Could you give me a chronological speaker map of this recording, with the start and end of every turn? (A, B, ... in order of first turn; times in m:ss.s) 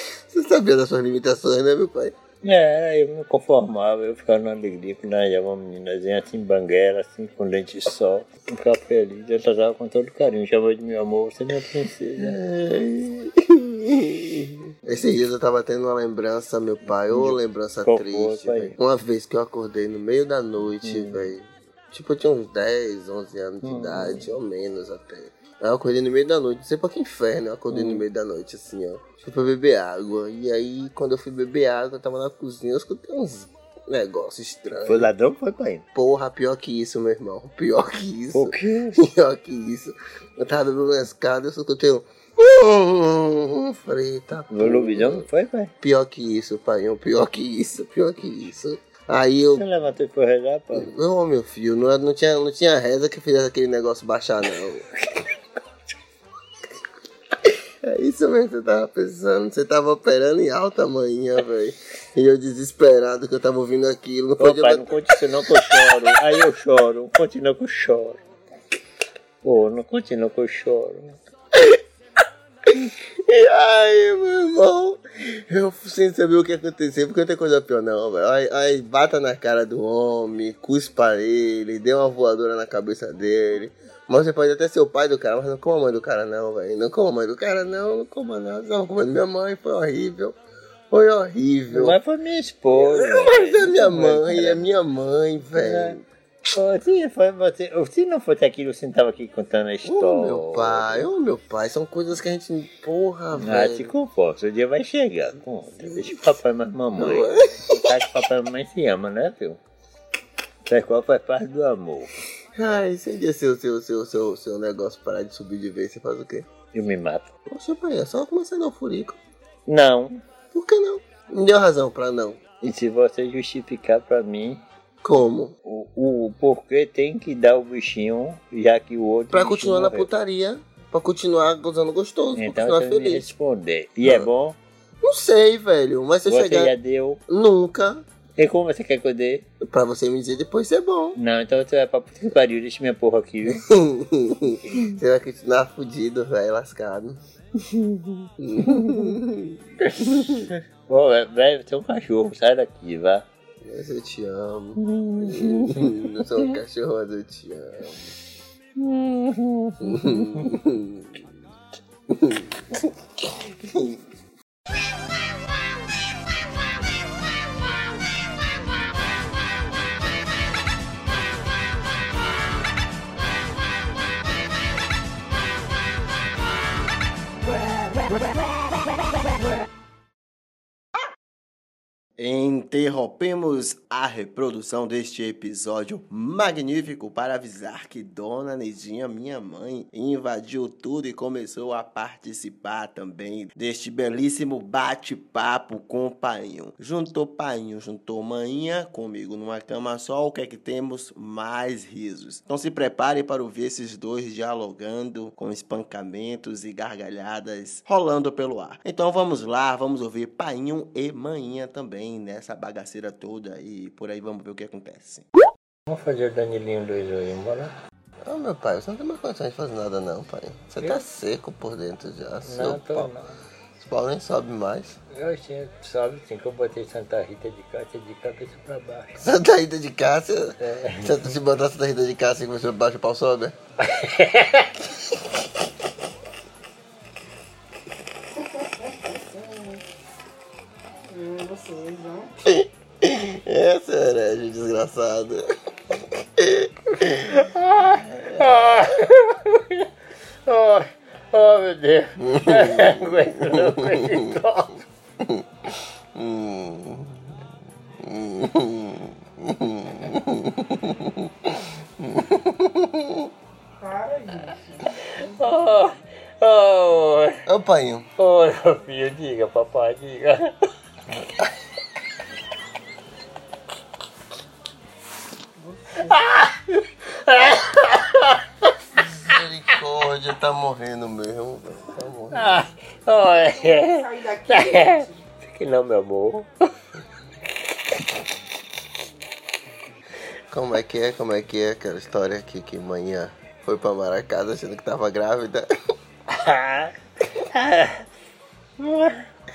0:00.3-0:02.1 A
0:02.4-0:12.4 B
0:12.2-0:35.1 A
0:17.1-0:18.8 B
0:20.8-0:21.3 B
0:23.6-0:24.3 B
0:27.7-0:28.0 B
0:34.8-0:35.8 B
0:35.9-0:45.2 A
0:38.3-0:39.0 B
0:44.5-0:45.7 B
0:45.8-0:49.6 A
0:49.5-0:50.9 B
0:50.8-0:54.8 A
0:57.8-1:04.9 A
1:04.4-1:08.2 B
1:09.4-1:11.2 B
1:12.8-1:30.4 A
1:30.9-1:32.0 A
1:31.7-1:34.7 B
1:32.7-1:36.0 A
1:35.6-1:36.0 B
1:36.5-1:41.1 B
1:39.8-1:43.9 A
1:43.4-1:49.6 B
1:47.0-1:47.8 A
1:50.6-1:52.1 B
1:52.5-1:56.5 A
1:56.7-1:57.3 B
1:57.5-1:59.2 A
1:59.7-2:00.2 B
2:00.5-2:02.4 A
2:02.6-2:04.6 B
2:05.0-2:05.5 A
2:05.6-2:10.1 B
2:09.3-2:13.3 A
2:12.3-2:14.6 B
2:15.0-2:16.7 A
2:16.2-2:17.2 B
2:17.3-2:18.0 A
2:18.4-2:19.4 B
2:19.6-2:21.2 A
2:21.2-2:23.6 B
2:23.6-2:27.2 A
2:27.6-2:29.1 B
2:28.4-2:30.4 A
2:29.8-2:33.2 B
2:33.6-2:38.1 A
2:34.8-2:36.2 B
2:38.8-2:40.5 B
2:39.9-2:41.1 A
2:42.1-2:42.7 A
2:43.6-2:43.9 A
3:02.2-3:35.3 A
3:35.9-3:37.7 B
3:38.2-3:43.1 A
3:42.4-3:43.4 B
3:43.8-3:45.0 A
3:45.1-3:49.2 B
3:49.2-3:53.5 A
3:50.6-3:51.1 B
3:53.9-3:54.7 B
3:58.6-3:59.8 C
4:01.1-4:02.3 C
4:02.4-4:05.5 A
4:06.4-4:07.1 A
4:07.1-4:09.9 B
4:10.4-4:14.8 B
4:12.3-4:12.9 A
4:16.1-4:17.3 A
4:18.0-4:23.1 A
4:23.8-4:24.9 C
4:24.9-4:27.4 B
4:27.4-4:28.1 A
4:28.2-4:30.5 B
4:35.6-4:36.2 C
4:36.0-4:38.4 B
4:39.0-4:42.6 A
4:42.3-4:46.5 B
4:43.3-4:45.2 C
4:50.5-4:55.6 A
4:56.3-4:58.0 B
4:58.8-4:59.3 B